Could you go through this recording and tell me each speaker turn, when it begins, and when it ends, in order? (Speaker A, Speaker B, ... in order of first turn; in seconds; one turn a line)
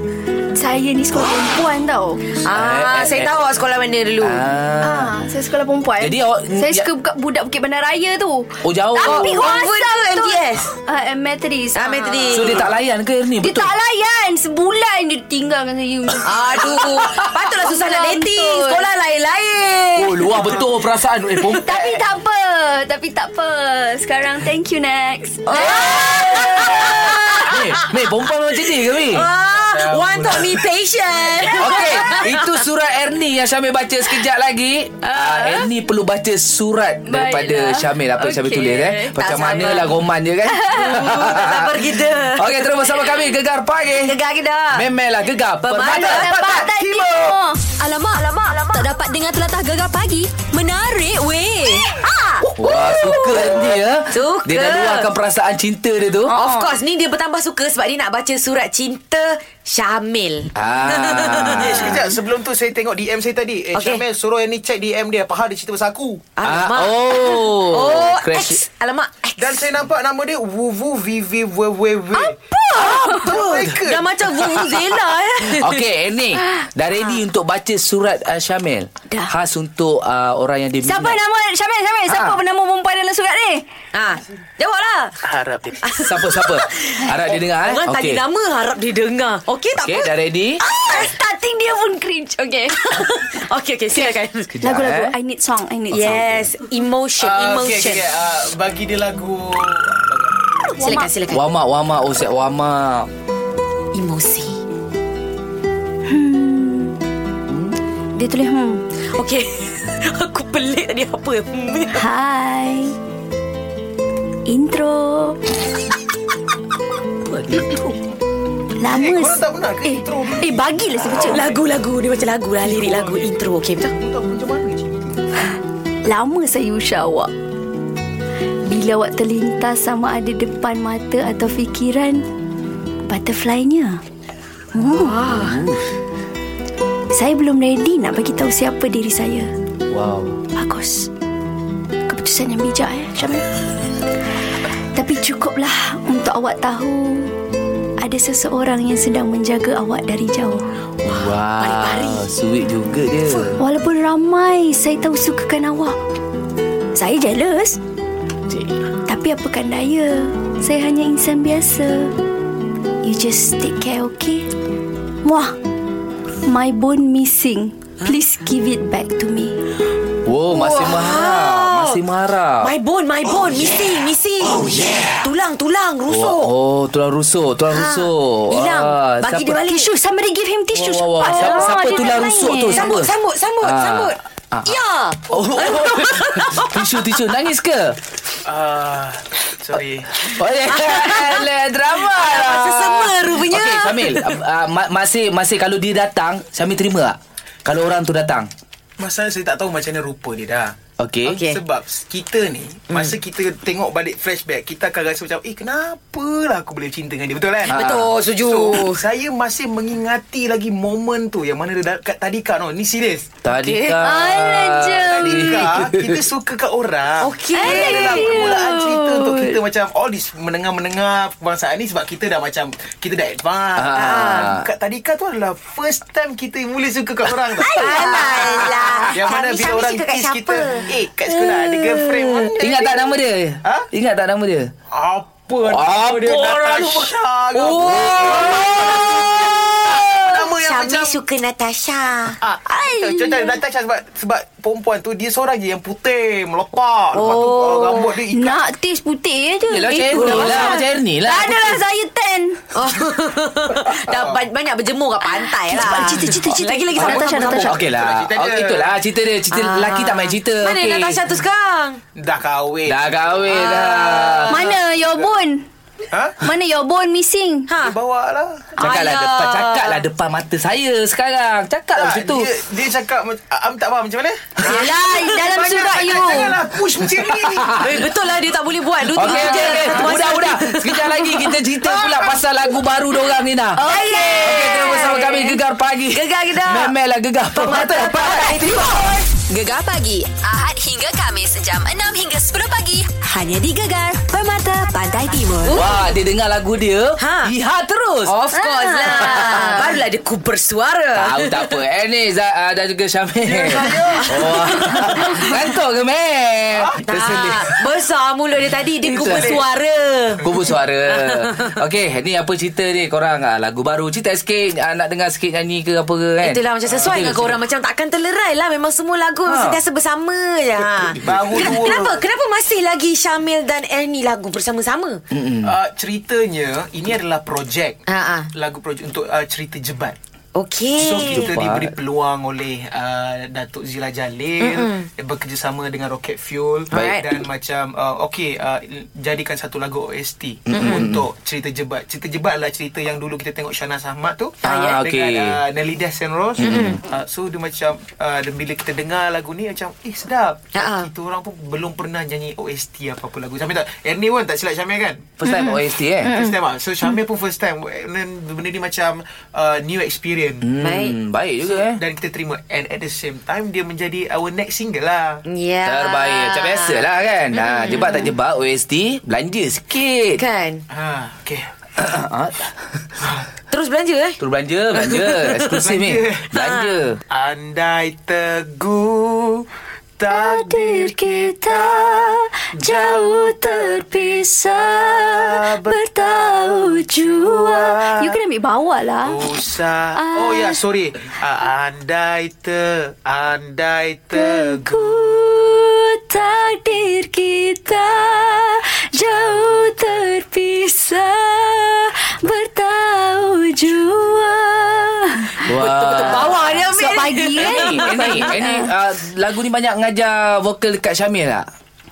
Speaker A: 0.6-2.4
Speaker B: 2.4-4.5
Speaker C: 2.5-3.4
Speaker C: 4.2-5.1
Speaker A: 4.8-12.7
Speaker C: 6.0-6.9
Speaker C: 8.6-9.6
Speaker B: 9.0-10.7
Speaker B: 11.8-12.6
Speaker C: 12.3-13.7
Speaker A: 13.4-16.5
Speaker B: 16.2-20.5
Speaker A: 17.1-18.9
Speaker C: 19.9-21.7
Speaker D: 20.3-20.6
Speaker A: 21.6-26.8
Speaker D: 21.7-22.1
Speaker B: 25.5-27.9
Speaker C: 25.8-29.3
Speaker B: 28.9-32.6
Speaker D: 29.3-31.8
Speaker C: 31.5-44.1
Speaker A: 31.8-32.2
Speaker B: 35.0-35.6
Speaker A: 37.1-37.9
Speaker B: 38.2-40.0
Speaker A: 40.5-41.0
Speaker B: 40.7-42.7
Speaker B: 44.0-44.9
Speaker C: 44.7-46.3
Speaker B: 45.6-46.3
Speaker A: 45.8-47.6
Speaker D: 45.8-47.4
Speaker E: 47.8-48.2
Speaker B: 47.9-48.9
Speaker E: 48.7-52.0
Speaker B: 51.9-55.1
Speaker C: 52.6-56.4
Speaker D: 53.4-53.8
Speaker A: 56.3-56.7
Speaker B: 56.3-61.8
Speaker C: 60.5-62.1
Speaker D: 61.6-66.3
Speaker B: 63.7-64.0
Speaker B: 66.4-69.7
Speaker C: 66.4-68.7
Speaker D: 69.4-74.1
Speaker A: 72.2-73.5
Speaker B: 72.7-75.8
Speaker C: 74.4-81.2
Speaker A: 80.8-83.7
Speaker C: 82.1-82.4
Speaker B: 83.9-85.2
Speaker D: 85.2-85.8
Speaker B: 85.8-90.1
Speaker C: 86.0-88.2
Speaker C: 89.8-90.6
Speaker A: 90.6-92.8
Speaker B: 92.7-94.5
Speaker C: 94.5-95.2
Speaker A: 94.6-96.2
Speaker B: 95.9-98.1
Speaker C: 96.0-96.5
Speaker D: 97.2-100.6
Speaker A: 100.6-101.1
Speaker B: 100.8-101.4
Speaker C: 101.3-103.1
Speaker B: 103.9-104.6
Speaker A: 106.1-107.0
Speaker C: 107.5-107.8
Speaker A: 108.2-108.8
Speaker B: 109.1-112.1
Speaker A: 111.9-113.0
Speaker A: 114.5-115.4
Speaker C: 117.2-118.0
Speaker A: 118.8-121.5
Speaker D: 118.8-121.7
Speaker B: 121.3-123.9
Speaker D: 122.6-125.3
Speaker A: 126.0-127.3
Speaker A: 128.7-132.2
Speaker A: 133.1-134.0
Speaker A: 134.7-135.2
Speaker B: 135.0-135.6
Speaker C: 135.3-135.9
Speaker A: 137.1-139.5
Speaker C: 139.9-140.4
Speaker A: 140.6-141.1
Speaker A: 142.1-143.5
Speaker A: 144.9-147.3
Speaker A: 148.0-150.7
Speaker C: 151.0-153.6
Speaker B: 151.1-152.4
Speaker A: 153.6-156.0
Speaker A: 156.9-157.8
Speaker C: 158.5-158.8
Speaker A: 159.1-162.2
Speaker A: 163.0-164.5
Speaker A: 165.2-165.5
Speaker A: 166.4-169.6
Speaker C: 170.2-172.7
Speaker B: 170.5-172.0
Speaker B: 172.6-176.5
Speaker C: 176.1-179.6
Speaker B: 177.7-179.9
Speaker A: 179.7-183.0
Speaker C: 180.7-184.8
Speaker B: 181.2-186.8
Speaker C: 185.3-188.0
Speaker D: 188.4-190.1
Speaker C: 190.2-198.5
Speaker B: 190.7-191.5
Speaker B: 192.0-194.4
Speaker D: 199.0-200.8
Speaker C: 201.0-201.4
Speaker B: 201.3-201.6
Speaker D: 201.4-213.3
Speaker C: 207.7-208.1
Speaker B: 207.7-209.0
Speaker C: 213.4-216.2
Speaker B: 213.6-214.0
Speaker A: 214.0-215.7
Speaker D: 215.0-233.9
Speaker B: 217.2-218.1
Speaker A: 217.5-219.6
Speaker C: 223.8-224.6
Speaker B: 223.9-224.5
Speaker B: 227.6-230.9
Speaker C: 227.8-229.1
Speaker C: 231.3-234.7
Speaker D: 234.9-239.1
Speaker C: 235.7-240.1
Speaker B: 239.9-242.4
Speaker D: 240.2-241.2
Speaker D: 242.4-248.6
Speaker A: 242.7-243.6
Speaker A: 247.2-252.6
Speaker C: 249.7-251.8
Speaker B: 250.1-250.8
Speaker B: 252.7-257.8
Speaker D: 254.1-254.5
Speaker A: 255.3-257.8
Speaker D: 257.0-258.9
Speaker C: 257.1-261.2
Speaker B: 259.5-262.0
Speaker D: 262.1-265.4
Speaker C: 262.9-264.7
Speaker B: 263.5-264.3
Speaker A: 264.5-265.6
Speaker D: 266.1-266.4
Speaker A: 266.4-267.7
Speaker B: 267.7-268.0
Speaker D: 267.8-268.7
Speaker C: 268.8-272.5
Speaker B: 268.8-270.0
Speaker D: 271.9-277.9
Speaker B: 274.6-275.2
Speaker A: 274.7-276.7
Speaker C: 277.2-278.0
Speaker B: 277.8-281.6
Speaker C: 279.1-283.8
Speaker A: 279.3-280.0
Speaker D: 279.7-280.1
Speaker B: 283.8-285.6
Speaker A: 283.9-284.4
Speaker C: 284.4-289.0
Speaker B: 286.1-286.9
Speaker B: 287.5-289.3
Speaker E: 289.3-295.7
Speaker B: 294.6-295.9
Speaker C: 295.7-298.3
Speaker B: 297.2-297.5
Speaker B: 298.3-301.8
Speaker A: 298.6-299.9
Speaker C: 299.1-299.9
Speaker C: 301.1-307.8
Speaker D: 303.4-304.6
Speaker B: 304.1-305.6
Speaker D: 306.7-307.2
Speaker B: 307.1-310.5
Speaker C: 309.0-309.6
Speaker D: 309.1-309.6
Speaker C: 310.4-317.6
Speaker B: 311.1-311.7
Speaker B: 316.4-325.2
Speaker D: 316.9-317.3
Speaker C: 319.4-319.8
Speaker C: 321.0-322.0
Speaker D: 321.2-322.2
Speaker C: 325.3-325.7
Speaker D: 325.6-328.0
Speaker B: 328.1-328.5
Speaker D: 328.5-330.2
Speaker B: 330.6-331.6
Speaker D: 331.0-355.4
Speaker C: 331.3-331.9
Speaker B: 334.6-335.1
Speaker C: 336.9-337.2
Speaker B: 336.9-337.3
Speaker C: 340.7-341.2
Speaker B: 340.7-341.1
Speaker C: 344.6-345.6
Speaker B: 344.6-345.0
Speaker C: 346.6-347.0
Speaker B: 346.6-347.0
Speaker B: 350.7-351.1
Speaker C: 355.4-356.3
Speaker A: 355.4-357.2
Speaker D: 356.2-360.7
Speaker C: 360.6-362.0
Speaker B: 360.8-361.2
Speaker D: 361.6-365.4
Speaker B: 365.5-368.3
Speaker C: 365.9-370.4
Speaker B: 370.4-370.8
Speaker D: 370.9-371.7
Speaker C: 372.0-373.0
Speaker B: 373.7-374.4
Speaker C: 374.4-377.2
Speaker B: 374.9-375.8
Speaker D: 375.7-376.5
Speaker B: 376.6-377.0
Speaker D: 377.3-379.7
Speaker D: 380.2-388.4
Speaker A: 380.3-390.8
Speaker D: 389.2-395.3
Speaker A: 394.4-405.7
Speaker C: 405.7-411.7
Speaker B: 405.8-408.6
Speaker A: 407.0-408.9